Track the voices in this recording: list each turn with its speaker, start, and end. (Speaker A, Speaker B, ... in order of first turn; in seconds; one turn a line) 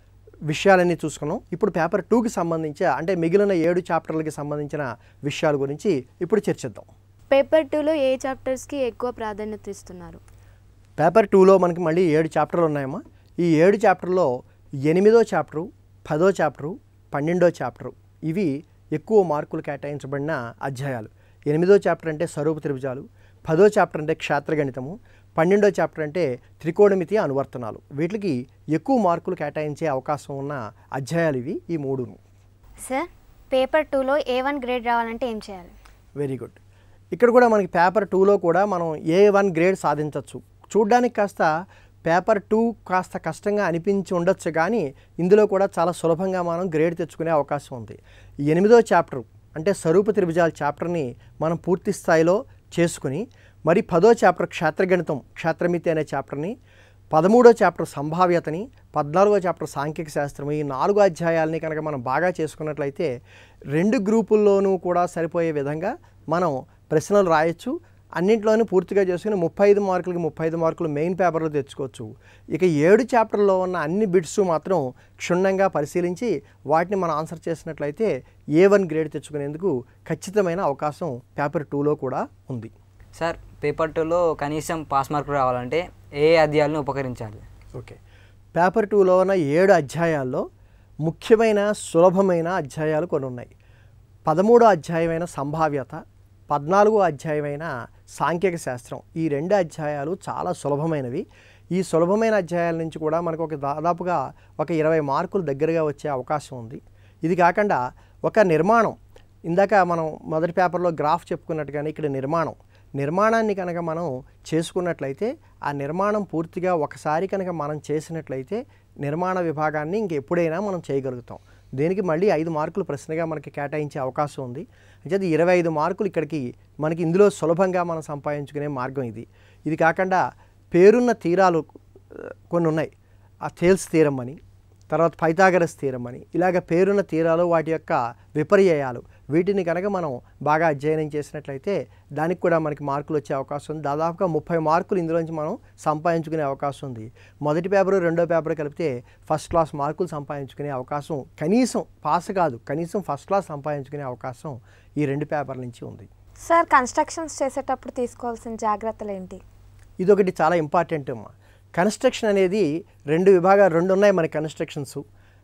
Speaker A: 0.5-6.9
Speaker B: 7.3-10.2
Speaker A: 11.0-14.3
Speaker A: 14.9-32.2
Speaker C: 32.8-35.7
Speaker A: 36.2-36.6
Speaker A: 37.1-41.5
Speaker A: 42.0-48.0
Speaker A: 48.5-56.5
Speaker A: 57.1-63.1
Speaker A: 63.7-82.7
Speaker D: 83.1-87.5
Speaker A: 88.5-90.4
Speaker A: 91.0-93.5
Speaker A: 94.3-96.0
Speaker A: 96.5-109.0
Speaker A: 109.5-130.2
Speaker A: 130.7-132.9
Speaker A: 133.4-134.4
Speaker A: 134.9-156.1
Speaker E: 156.5-159.4
Speaker A: 160.0-165.0